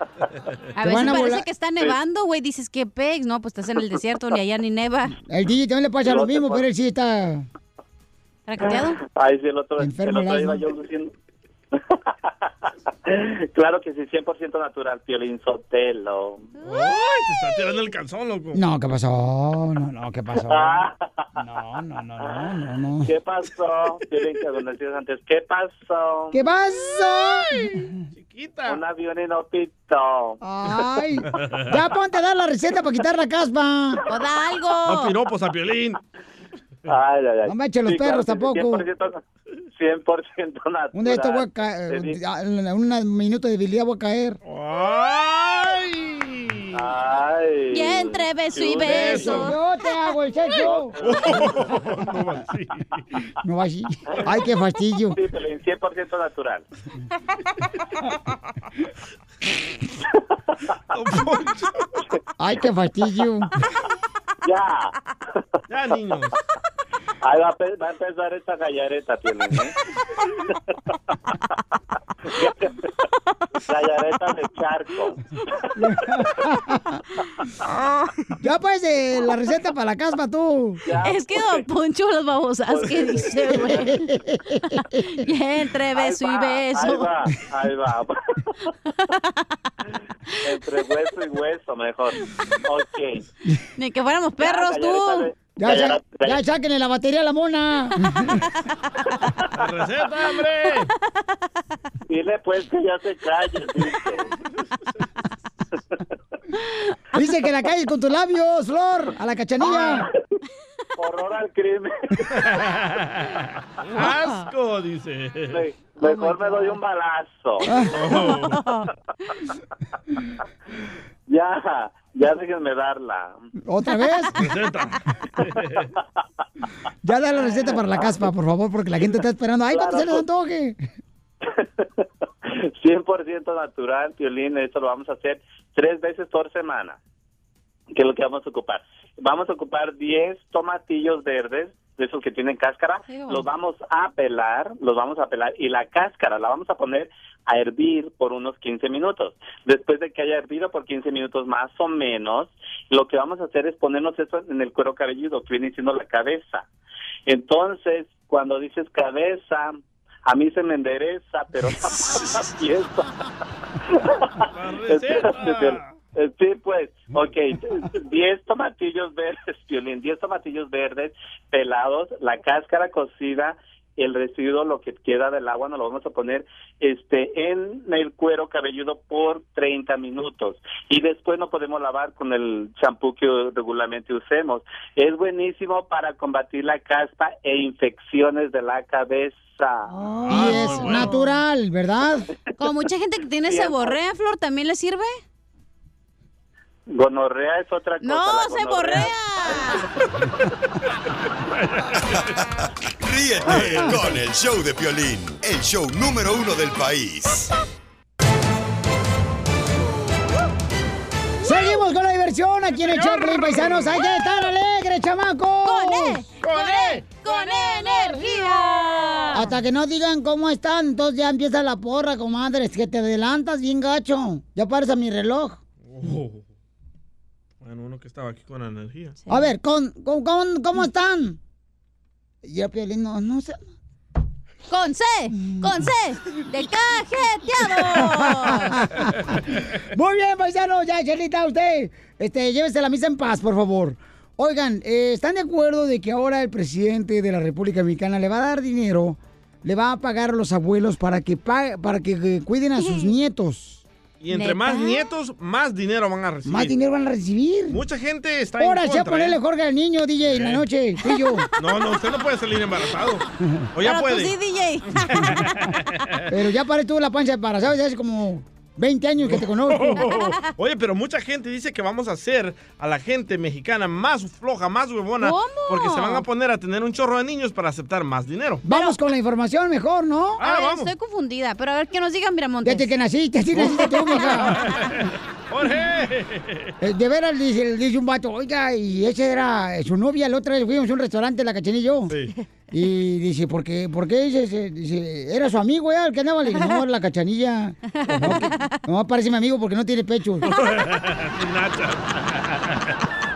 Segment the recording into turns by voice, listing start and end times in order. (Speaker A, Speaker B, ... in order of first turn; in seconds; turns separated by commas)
Speaker A: 0.8-5.2, Speaker B: 0.8-1.4, Speaker B: 5.3-7.5, Speaker C: 6.0-6.6, Speaker A: 8.5-9.0, Speaker C: 9.0-11.1, Speaker B: 9.8-10.6, Speaker C: 13.1-16.5, Speaker D: 16.6-18.6, Speaker B: 18.5-20.9, Speaker C: 20.5-21.3, Speaker B: 21.4-23.1, Speaker C: 23.0-26.4, Speaker B: 26.3-27.9, Speaker D: 28.1-28.8, Speaker C: 28.6-30.4, Speaker B: 30.4-34.0, Speaker D: 31.4-31.6, Speaker A: 34.1-35.1, Speaker D: 34.8-36.0, Speaker C: 36.9-39.2, Speaker B: 37.5-38.9, Speaker C: 39.8-42.1, Speaker B: 40.9-44.4, Speaker D: 44.5-46.8, Speaker C: 46.7-49.2, Speaker A: 47.7-49.5, Speaker D: 48.9-49.4, Speaker B: 49.0-51.0, Speaker C: 50.6-51.7, Speaker D: 51.0-53.0, Speaker B: 53.4-55.2, Speaker C: 55.1-56.6, Speaker D: 60.9-61.7, Speaker B: 62.4-63.5, Speaker C: 64.4-64.9, Speaker D: 65.7-66.3, Speaker C: 67.2-69.7, Speaker C: 72.3-72.7, Speaker C: 73.7-75.2, Speaker B: 75.8-77.0, Speaker B: 78.4-80.8, Speaker C: 80.8-81.7, Speaker A: 81.0-84.0, Speaker C: 82.7-83.8, Speaker B: 83.4-85.0, Speaker A: 85.1-87.1, Speaker C: 85.9-88.2, Speaker C: 90.4-93.2, Speaker A: 93.8-95.3, Speaker C: 94.4-96.4, Speaker B: 95.6-98.4, Speaker D: 99.5-100.9, Speaker C: 102.1-104.2, Speaker B: 107.1-110.0, Speaker C: 111.0-111.9, Speaker D: 112.4-115.6, Speaker C: 115.5-117.7, Speaker A: 116.0-116.8, Speaker B: 117.7-118.0, Speaker D: 117.9-118.6, Speaker A: 118.3-118.9, Speaker C: 121.3-123.3, Speaker B: 123.6-124.3, Speaker D: 124.4-125.9, Speaker B: 127.0-130.8, Speaker C: 129.7-130.2, Speaker C: 131.5-131.9, Speaker C: 132.4-137.0, Speaker C: 137.9-156.7, Speaker A: 143.1-143.4, Speaker C: 157.3-163.1, Speaker C: 163.9-189.9, Speaker D: 164.5-165.9, Speaker A: 189.9-191.4, Speaker D: 190.2-191.1, Speaker B: 190.3-192.3, Speaker A: 192.6-195.2, Speaker C: 193.5-193.9, Speaker C: 196.9-199.9, Speaker A: 198.0-199.9, Speaker D: 201.5-201.9, Speaker E: 203.0-207.5, Speaker D: 203.5-203.9, Speaker B: 203.6-203.9, Speaker B: 211.4-216.2, Speaker D: 212.9-213.9, Speaker A: 215.6-219.5, Speaker D: 216.4-217.0, Speaker B: 219.3-225.6, Speaker D: 225.9-226.4, Speaker D: 227.6-229.2, Speaker B: 229.3-231.4, Speaker B: 232.4-233.6, Speaker A: 234.7-238.9, Speaker B: 237.8-253.8, Speaker A: 252.8-253.1, Speaker D: 254.2-256.7, Speaker A: 254.3-255.1, Speaker B: 256.4-257.8, Speaker D: 257.7-259.4, Speaker B: 258.6-261.5, Speaker D: 260.3-260.6, Speaker A: 261.1-261.4, Speaker D: 261.6-264.3, Speaker A: 263.8-265.7, Speaker D: 265.0-266.2, Speaker B: 266.3-270.1, Speaker D: 269.3-278.6, Speaker A: 270.0-270.3, Speaker A: 275.2-276.2, Speaker B: 278.6-280.4, Speaker A: 278.7-278.9, Speaker D: 280.4-280.9, Speaker A: 280.4-282.9, Speaker B: 282.6-284.6, Speaker A: 283.8-284.6, Speaker D: 284.5-286.7, Speaker B: 286.8-292.2, Speaker B: 292.7-300.5, Speaker A: 298.0-298.7, Speaker D: 300.5-302.9